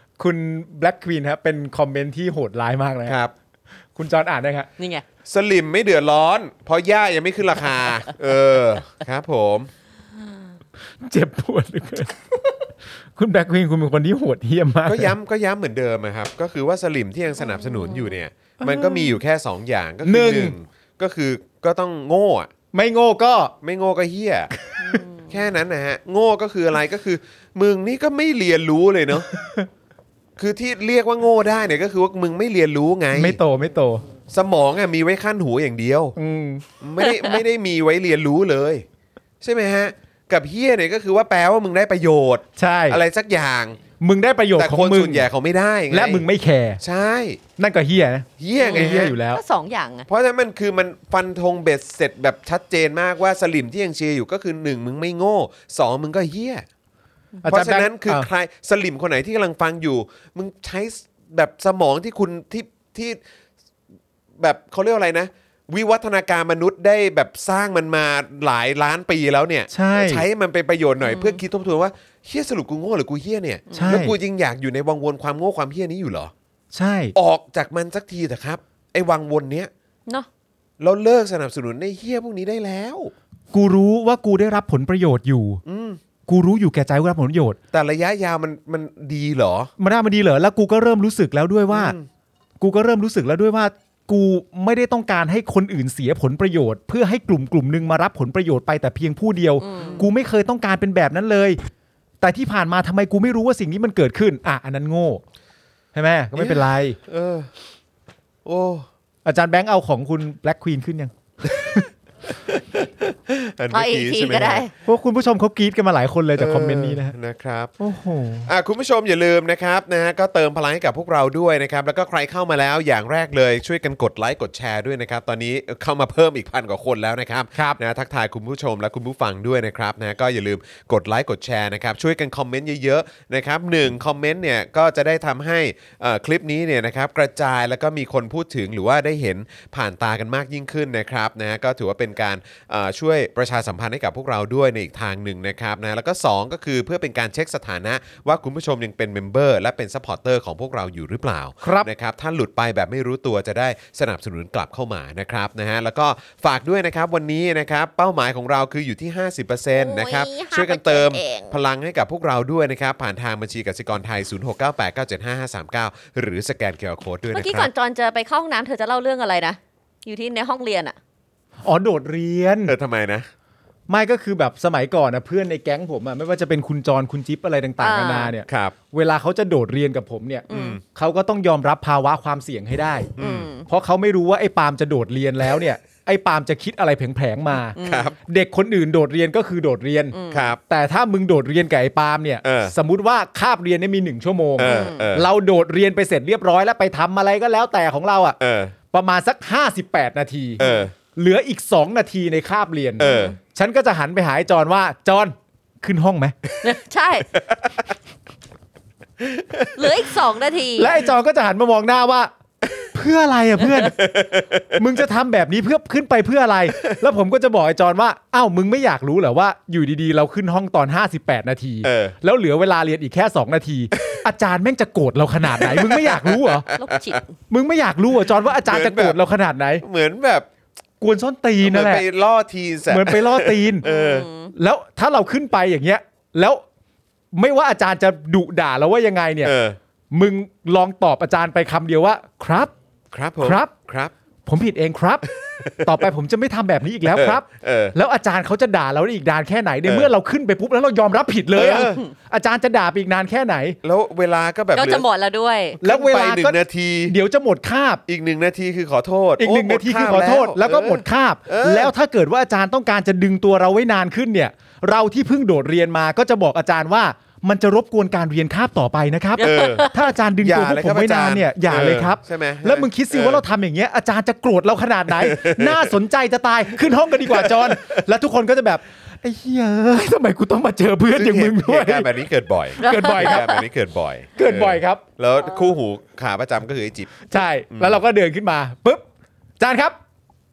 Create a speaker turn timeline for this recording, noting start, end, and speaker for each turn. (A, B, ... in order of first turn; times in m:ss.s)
0:00.2-0:03.2 A
0:03.1-0:03.3 B
0:04.0-0:04.7 A
0:04.8-0:05.0 C
0:05.3-0:09.7 B
0:11.0-0:12.3 A
0:13.2-0:15.1 A
0:14.9-0:22.5 B
0:17.4-0:18.2 C
0:18.6-0:19.2 A
0:20.0-0:20.6 A
0:22.7-0:23.6 A
0:23.6-0:24.5 B
0:24.8-0:25.0 A
0:24.8-0:25.3 C
0:25.3-0:29.3 B
0:29.3-0:29.7 A
0:30.4-0:33.4 B
0:33.1-0:34.0 A
0:34.3-0:36.2 B
0:36.2-0:36.6 A
0:36.8-0:38.8 B
0:37.0-0:37.4 C
0:39.4-0:43.8 B
0:42.6-0:43.0 A
0:44.0-0:45.3 A
0:44.6-0:46.2 B
0:45.9-0:46.8 A
0:46.8-0:47.4 B
0:47.6-0:49.4 A
0:48.4-0:49.2 B
0:48.6-0:50.1 C
0:50.1-0:56.7 B
0:57.4-0:58.3 A
0:57.5-1:03.2 B
1:04.4-1:16.3 B
1:09.7-1:10.2 A
1:11.0-1:11.4 C
1:13.7-1:14.0 C
1:13.7-1:14.2 A
1:16.7-1:17.2 A
1:17.2-1:19.7 B
1:20.8-1:23.1 B
1:23.5-1:25.6 A
1:25.6-1:26.0 B
1:26.3-1:27.6 A
1:27.7-1:29.7 B
1:29.8-1:32.0 A
1:31.7-1:32.1 B
1:32.6-1:41.6 A
1:39.6-1:40.0 C
1:39.8-1:40.1 B
1:42.2-1:45.2 A
1:45.9-1:47.0 A
1:46.4-1:47.5 B
1:48.4-1:48.9 B
1:49.2-1:51.9 A
1:52.4-1:54.7 B
1:53.7-1:54.7 C
1:54.8-1:57.2 A
1:56.4-1:57.7 B
1:57.8-1:58.5 A
1:58.5-2:47.7 B
2:31.6-2:31.9 A
2:39.7-2:41.6 C
2:47.3-2:51.0 C
2:51.6-2:52.8 A
2:52.7-2:53.3 B
2:53.9-3:03.1 A
2:57.8-2:58.3 C
2:58.5-2:58.8 B
3:00.5-3:00.8 C
3:00.5-3:00.8 B
3:03.2-3:03.5 B
3:03.2-3:03.7 C
3:03.7-3:10.2 A
3:07.8-3:08.1 C
3:07.8-3:08.2 B
3:10.1-3:10.5 C
3:10.3-3:10.6 B
3:10.7-3:18.4 A
3:12.4-3:12.7 B
3:14.6-3:15.3 B
3:14.6-3:15.1 C
3:18.4-3:18.7 B
3:18.9-3:20.6 A
3:20.6-3:20.9 B
3:20.6-3:20.9 C
3:21.1-3:26.4 A
3:23.0-3:23.4 B
3:23.0-3:23.4 C
3:26.6-3:27.3 C
3:27.5-3:27.8 B
3:29.2-3:29.9 B
3:29.8-3:31.0 C
3:30.8-3:32.3 A
3:32.9-3:34.0 A
3:33.9-3:34.8 B
3:34.8-3:46.7 A
3:41.8-3:42.2 B
3:45.5-3:47.2 B
3:46.8-3:47.4 C
3:47.5-3:49.8 A
3:48.6-3:49.2 B
3:49.8-3:50.5 B
3:51.0-3:52.0 A
3:51.6-3:54.3 B
3:52.9-3:53.9 A
3:53.8-3:54.5 C
3:54.5-3:56.6 A
3:57.3-3:59.5 A
3:59.4-3:59.8 B
4:00.1-4:02.7 A
4:03.1-4:04.1 B
4:03.4-4:03.7 A
4:04.5-4:05.3 A
4:05.4-4:05.9 B
4:05.8-4:13.8 A
4:07.1-4:08.0 B
4:09.8-4:10.1 B
4:11.6-4:12.0 B
4:11.6-4:12.1 C
4:13.8-4:15.0 B
4:14.8-4:15.8 C
4:15.8-4:18.0 A
4:15.8-4:17.2 B
4:18.1-4:21.9 B
4:19.4-4:42.1 A
4:29.4-4:30.1 C
4:29.4-4:29.9 B
4:30.4-4:33.4 B
4:35.2-4:35.9 B
4:37.2-4:38.0 B
4:41.1-4:48.0 B
4:42.8-4:43.5 A
4:42.8-4:43.6 C
4:44.4-4:45.0 A
4:47.3-4:49.1 A
4:49.6-4:50.0 A